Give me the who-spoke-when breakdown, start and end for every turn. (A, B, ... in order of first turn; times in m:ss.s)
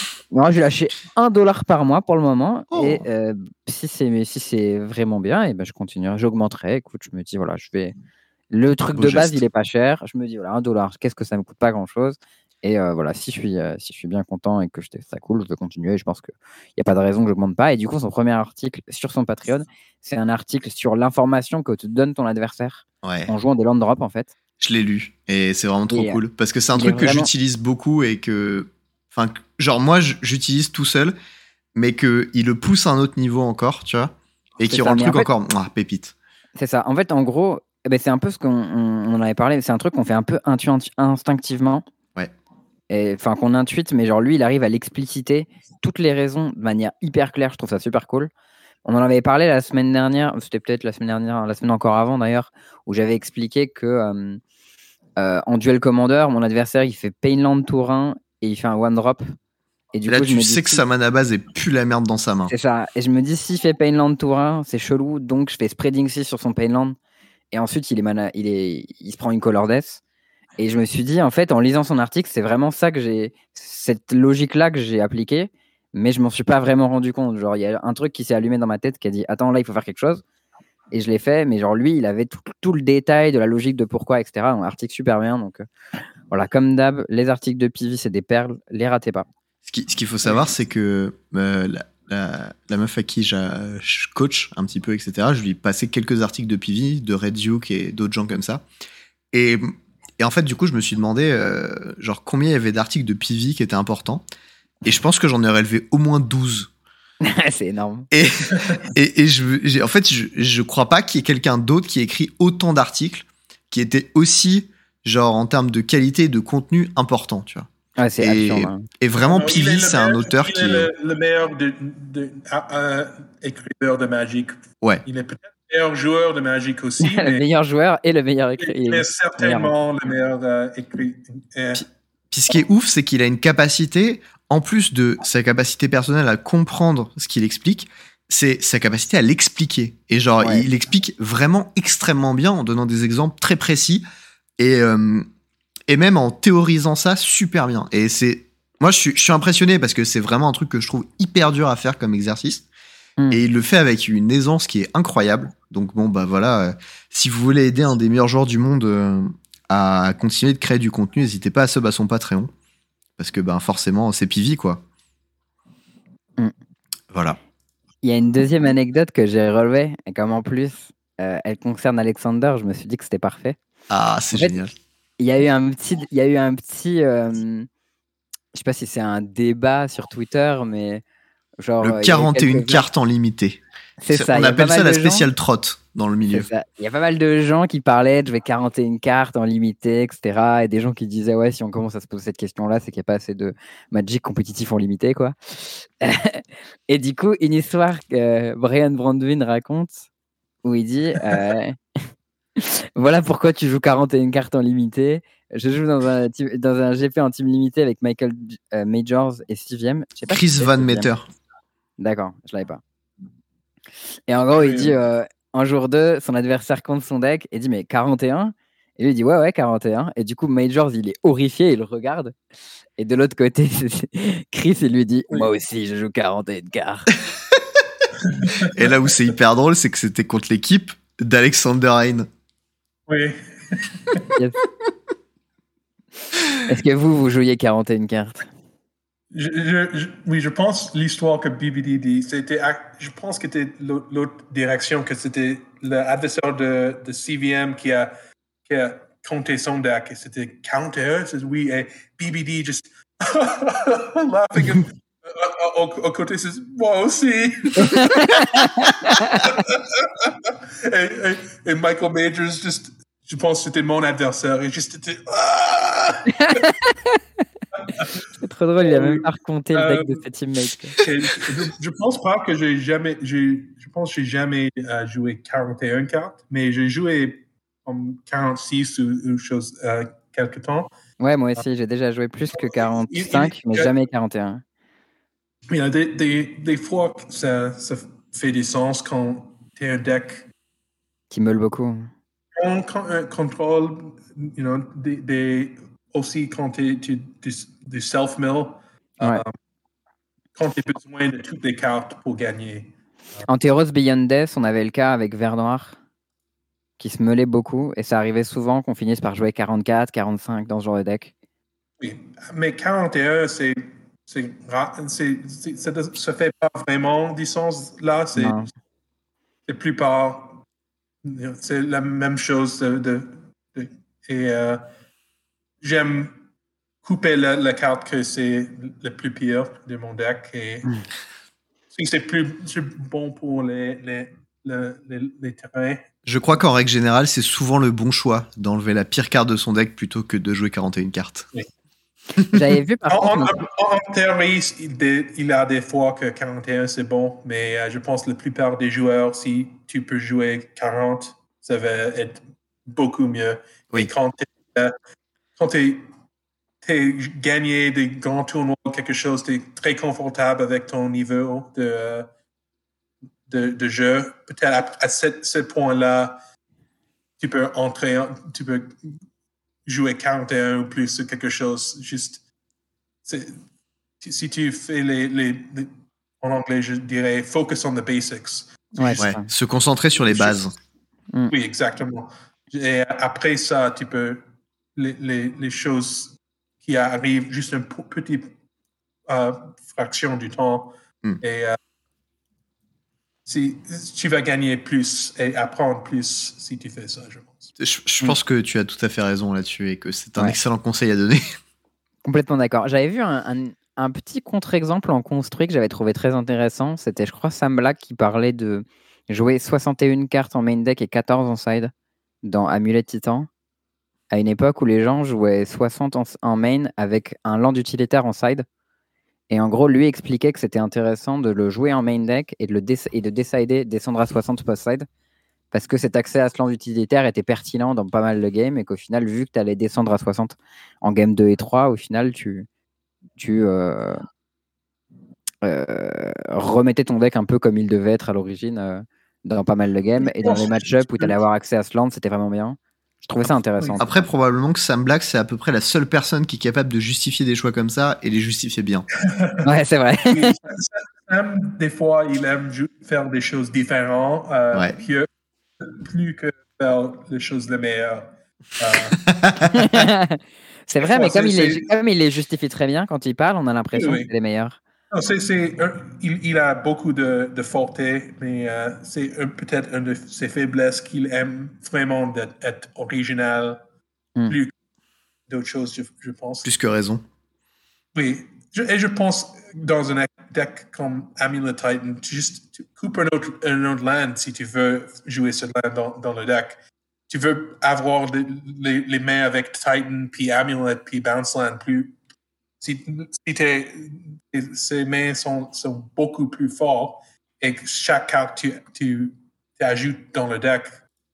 0:00.3-0:07.9 A
0:02.7-0:03.0 B
0:08.5-0:24.3 A
0:08.9-0:09.4 B
0:23.0-0:23.3 B
0:24.6-0:31.1 B
0:25.9-0:26.2 A
0:26.7-0:27.3 A
0:31.7-0:36.1 B
0:34.7-0:35.3 A
0:36.6-0:41.8 A
0:42.9-0:48.3 A
0:48.8-0:54.4 A
0:55.2-0:59.2 A
0:59.9-1:00.8 A
1:00.1-1:02.5 B
1:02.5-1:07.0 A
1:07.5-1:10.0 A
1:10.6-1:20.2 A
1:20.9-1:25.6 A
1:26.3-1:29.3 A
1:29.6-1:38.6 B
1:39.3-1:44.2 B
1:44.8-1:46.7 B
1:47.2-1:48.1 A
1:48.1-1:57.7 B
1:48.6-1:48.9 C
1:58.0-1:58.8 A
1:58.2-2:00.9 B
1:59.2-2:07.4 C
2:07.0-2:09.7 A
2:08.6-2:11.8 C
2:12.3-2:24.0 B
2:20.4-2:20.6 A
2:24.6-2:25.2 B
2:25.9-2:32.6 B
2:33.3-2:42.5 B
2:43.2-2:44.8 B
2:47.1-2:47.4 B
2:48.0-2:53.6 A
2:53.9-2:54.7 B
2:55.2-2:57.7 A
2:58.5-3:01.0 A
3:01.6-3:02.8 A
3:01.8-3:03.6 B
3:04.0-3:05.2 A
3:04.1-3:06.5 B
3:06.3-3:20.0 A
3:20.6-3:21.8 A
3:22.6-3:31.1 A
3:30.2-3:31.3 B
3:32.0-3:32.8 A
3:34.3-3:42.3 A
3:34.5-3:34.9 C
3:43.0-3:47.1 A
3:48.2-3:48.9 C
3:48.6-3:52.3 B
3:53.1-3:54.2 C
3:56.6-3:58.5 A
3:59.3-4:08.1 C
4:08.6-4:26.7 C
4:17.8-4:19.5 A
4:26.3-4:27.2 A
4:28.4-4:31.0 A
4:28.8-4:30.2 C
4:31.0-4:40.9 C
4:41.2-4:44.6 A
4:42.5-4:43.9 C
4:45.7-4:50.5 C
4:51.3-4:52.1 A
4:52.6-4:59.5 C
5:00.6-5:03.4 C
5:03.5-5:06.0 A
5:07.0-5:11.3 A
5:12.0-5:18.6 C
5:18.4-5:18.7 A
5:19.7-5:20.6 C
5:21.2-5:24.8 C
5:25.8-5:26.4 C
5:27.0-5:30.9 C
5:31.9-5:36.1 C
5:36.2-5:41.5 B
5:42.5-5:43.6 A
5:43.1-5:54.9 C
5:55.6-5:56.0 C
5:56.8-6:02.3 C
6:03.5-6:06.4 C
6:07.4-6:09.1 C
6:09.8-6:12.4 C
6:13.2-6:13.6 C
6:14.2-6:19.4 C
6:19.0-6:19.5 A
6:19.2-6:20.7 B
6:20.1-6:20.6 C
6:21.5-6:24.4 C
6:25.0-6:28.5 C
6:29.3-6:31.8 C
6:33.4-6:37.7 C
6:37.8-6:41.5 B
6:42.2-6:51.9 A
6:52.4-6:53.5 A
6:54.3-6:58.6 A
6:59.5-7:05.1 A
7:05.7-7:12.7 A
7:13.4-7:14.2 A
7:15.6-7:24.2 A
7:20.2-7:21.3 C
7:24.0-7:29.0 B
7:29.2-7:29.6 C
7:29.6-7:30.5 A
7:30.2-7:35.3 C
7:35.8-7:39.2 C
7:39.3-7:40.0 B
7:39.7-7:44.8 A
7:41.0-7:41.9 C
7:43.9-7:44.3 C
7:45.1-7:53.8 C
7:54.5-7:54.7 C
7:55.5-7:56.7 C
7:56.6-7:57.2 B
7:58.1-8:12.2 C
8:12.8-8:21.0 C